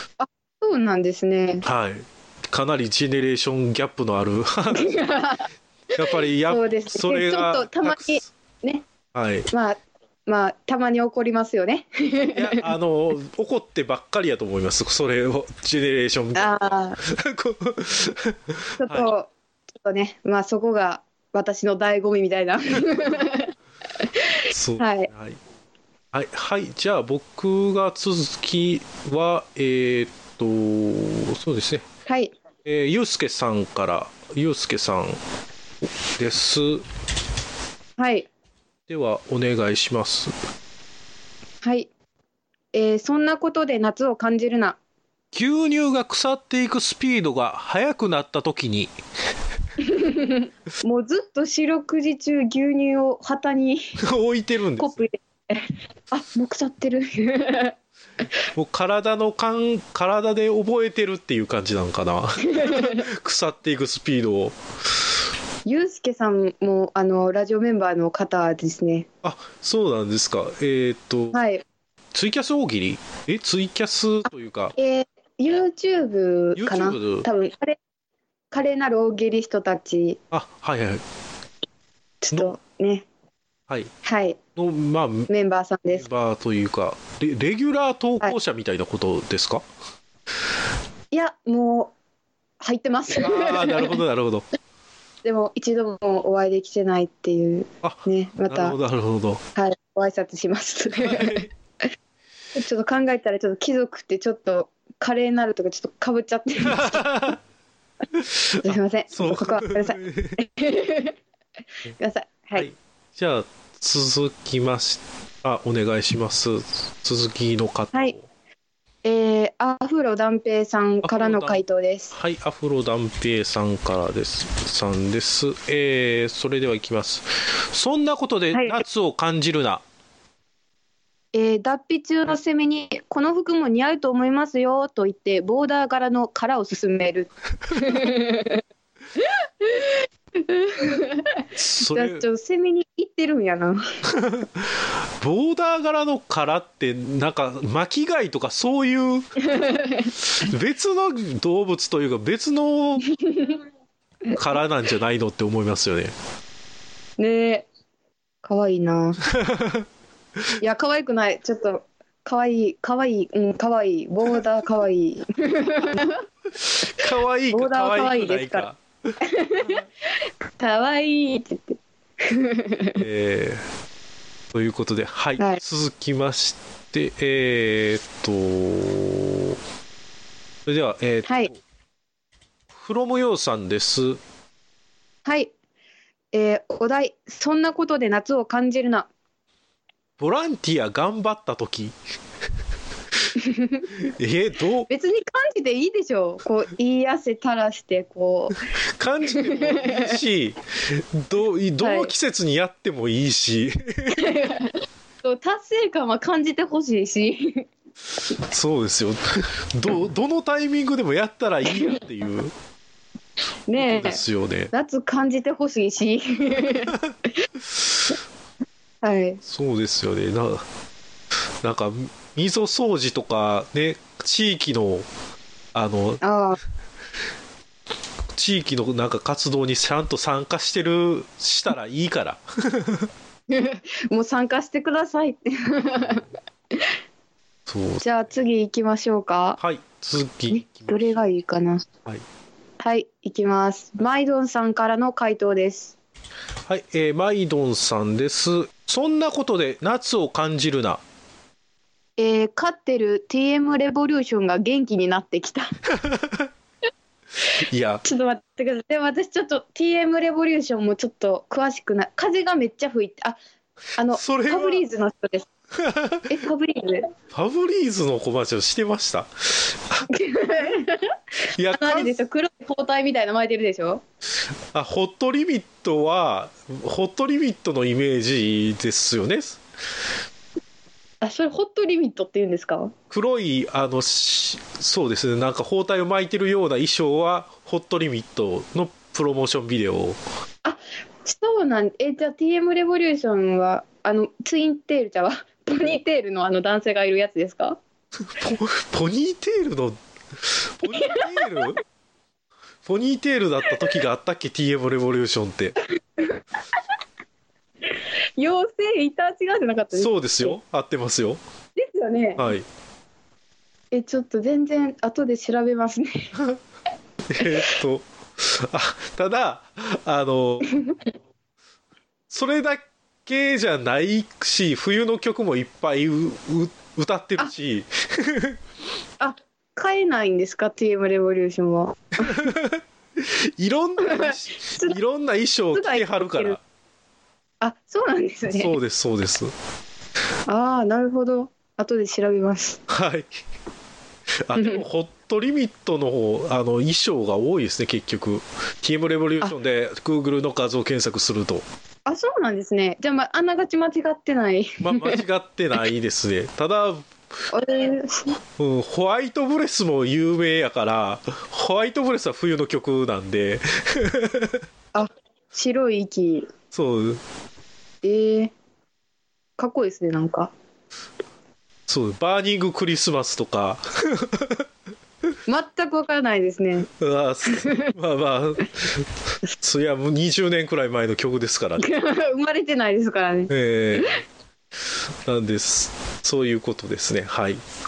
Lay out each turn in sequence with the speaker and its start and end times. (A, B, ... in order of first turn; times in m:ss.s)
0:00.2-0:01.7 A
0:01.6-0:05.0 B
0:04.7-0:05.5 A
0:05.9-0:08.3 B
0:06.5-0:08.9 A
0:09.1-0:09.5 B
0:09.5-0:12.6 A
0:12.4-0:19.1 B
0:16.4-0:17.0 A
0:18.8-0:23.5 A
0:24.5-0:25.4 B
0:24.8-0:25.1 A
0:26.1-0:31.8 B
0:32.1-0:32.3 A
0:32.6-0:35.2 B
0:36.2-0:36.9 B
0:38.0-0:38.3 A
0:38.9-0:40.3 B
0:41.6-0:41.9 A
0:42.7-0:44.8 A
0:45.3-0:48.9 B
0:49.8-0:53.8 A
0:54.0-0:55.0 B
0:54.8-0:57.7 A
0:58.6-1:04.6 B
1:02.5-1:03.0 A
1:05.7-1:09.1 A
1:09.2-1:11.4 B
1:11.3-1:11.6 A
1:12.1-1:14.7 B
1:14.8-1:17.8 A
1:16.6-1:17.3 B
1:18.5-1:20.2 A
1:20.3-1:21.0 B
1:22.2-1:23.1 A
1:24.0-1:24.4 A
1:24.6-1:25.3 B
1:25.3-1:26.0 A
1:25.9-1:29.6 B
1:31.1-1:31.9 A
1:32.6-1:34.0 A
1:33.2-1:34.5 B
1:35.2-1:38.8 A
1:37.8-1:39.4 B
1:39.6-1:41.4 A
1:41.0-1:41.5 B
1:42.6-1:47.0 A
1:46.6-1:47.4 B
1:48.1-1:50.4 B
1:48.6-1:51.2 A
1:52.0-1:52.7 A
1:52.6-1:58.3 B
1:59.0-2:02.2 A
2:01.0-2:09.8 B
2:08.5-2:08.8 A
2:11.3-2:18.6 A
2:19.6-2:23.8 A
2:21.6-2:22.2 B
2:24.1-2:29.4 B
2:29.5-2:30.1 A
2:30.2-2:33.1 B
2:33.2-2:33.6 A
2:34.4-2:36.1 B
2:37.2-2:37.7 A
2:38.4-2:39.2 A
2:39.3-2:39.8 B
2:40.6-2:46.2 A
2:46.6-2:48.8 B
2:47.5-2:48.7 A
2:49.2-2:49.8 A
2:50.6-2:53.0 A
2:53.0-2:53.6 B
2:54.5-2:59.6 B
3:00.7-3:01.6 B
3:01.3-3:01.5 A
3:02.7-3:04.2 B
3:05.2-3:05.5 A
3:06.3-3:09.1 A
3:10.2-3:12.0 B
3:13.4-3:13.9 A
3:14.0-3:14.9 B
3:14.9-3:18.6 A
3:19.0-3:24.2 B
3:19.3-3:20.1 A
3:21.8-3:22.1 A
3:24.2-3:27.6 A
3:28.3-3:32.5 B
3:33.7-3:34.2 A
3:33.8-3:34.7 B
3:34.7-3:37.0 A
3:39.0-3:39.4 A
3:39.4-3:40.6 B
3:41.6-3:45.1 B
3:45.8-3:46.2 B
3:46.2-3:46.6 A
3:48.3-3:53.1 B
3:53.5-3:56.2 A
3:57.7-3:58.0 B
3:58.0-3:59.6 A
3:59.6-4:01.2 B
4:00.5-4:01.9 A
4:02.8-4:06.0 A
4:06.7-4:11.0 B
4:12.2-4:15.7 A
4:16.0-4:16.5 B
4:17.7-4:18.0 B
4:18.0-4:23.4 A
4:24.0-4:25.5 A
4:24.1-4:24.8 B
4:25.8-4:26.3 B
4:26.3-4:27.1 A
4:27.3-4:30.1 B
4:30.1-4:31.0 A
4:31.6-4:32.2 B
4:31.7-4:34.0 A
4:34.7-4:39.6 B
4:41.2-4:42.9 A
4:43.1-4:50.2 B
4:50.6-4:57.8 A
4:58.2-5:01.8 B
5:00.9-5:01.7 A
5:02.8-5:05.8 B
5:08.4-5:10.6 A
5:09.9-5:11.4 B
5:11.8-5:12.5 A
5:12.4-5:12.6 B
5:13.9-5:16.3 A
5:17.3-5:20.7 B
5:22.3-5:28.6 B
5:29.2-5:32.3 A
5:32.2-5:36.6 B
5:34.0-5:35.0 A
5:35.7-5:36.6 A
5:37.6-5:38.8 A
5:38.5-5:39.5 B
5:40.5-5:42.8 A
5:42.9-5:43.4 B
5:44.4-5:51.6 B
5:44.6-5:44.8 A
5:52.1-5:55.2 A
5:54.8-5:57.1 B
5:57.5-5:58.4 A
5:58.6-6:04.6 B
6:04.9-6:06.5 A
6:06.7-6:07.2 B
6:08.0-6:08.5 A
6:09.6-6:10.5 A
6:11.9-6:14.7 B
6:15.5-6:16.9 A
6:16.9-6:22.0 B
6:17.6-6:17.8 A
6:21.8-6:23.5 A
6:23.5-6:24.2 B
6:25.3-6:27.6 B